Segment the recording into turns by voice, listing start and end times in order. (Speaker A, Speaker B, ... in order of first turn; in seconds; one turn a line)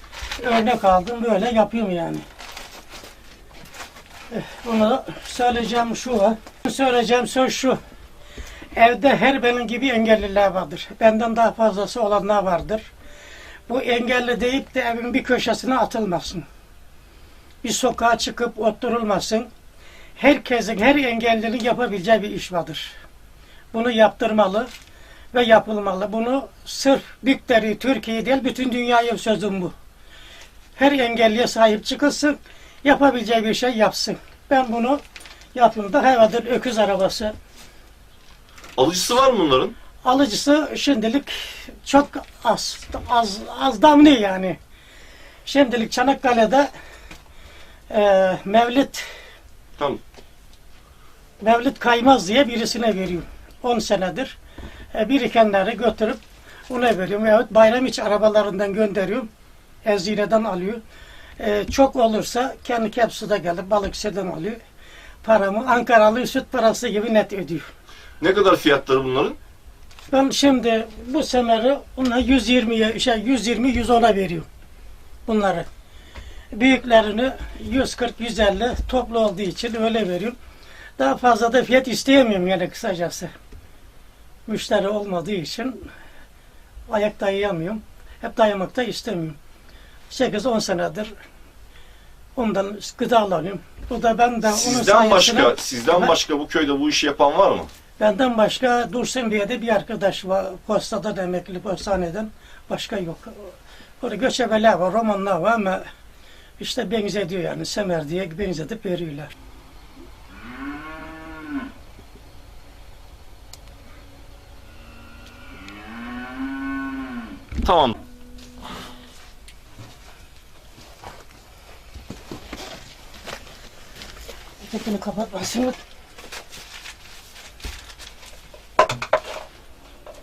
Speaker A: 0.4-2.2
Speaker A: 4.3-7.8
Speaker A: 8.8-12.9
Speaker A: 13.7-16.5
Speaker A: 17.6-19.5
Speaker A: 20.2-23.0
Speaker A: 23.7-24.7
Speaker A: 25.3-29.8
Speaker A: 30.8-35.0
Speaker A: 35.5-37.4
Speaker B: 38.8-39.8
Speaker A: 40.0-44.6
Speaker A: 45.5-46.7
Speaker A: 47.9-49.1
Speaker A: 51.4-54.4
Speaker A: 54.9-59.3
Speaker A: 59.9-60.8
Speaker A: 61.4-64.6
Speaker A: 65.2-67.7
Speaker B: 68.2-69.4
Speaker A: 70.1-74.5
Speaker A: 75.3-75.7
Speaker A: 76.5-80.4
Speaker A: 81.0-83.3
Speaker A: 84.5-85.9
Speaker A: 86.9-89.4
Speaker A: 90.1-91.1
Speaker A: 92.4-96.1
Speaker B: 94.4-97.7
Speaker A: 98.0-105.9
Speaker A: 106.6-109.3
Speaker B: 117.6-118.0
Speaker A: 124.6-125.8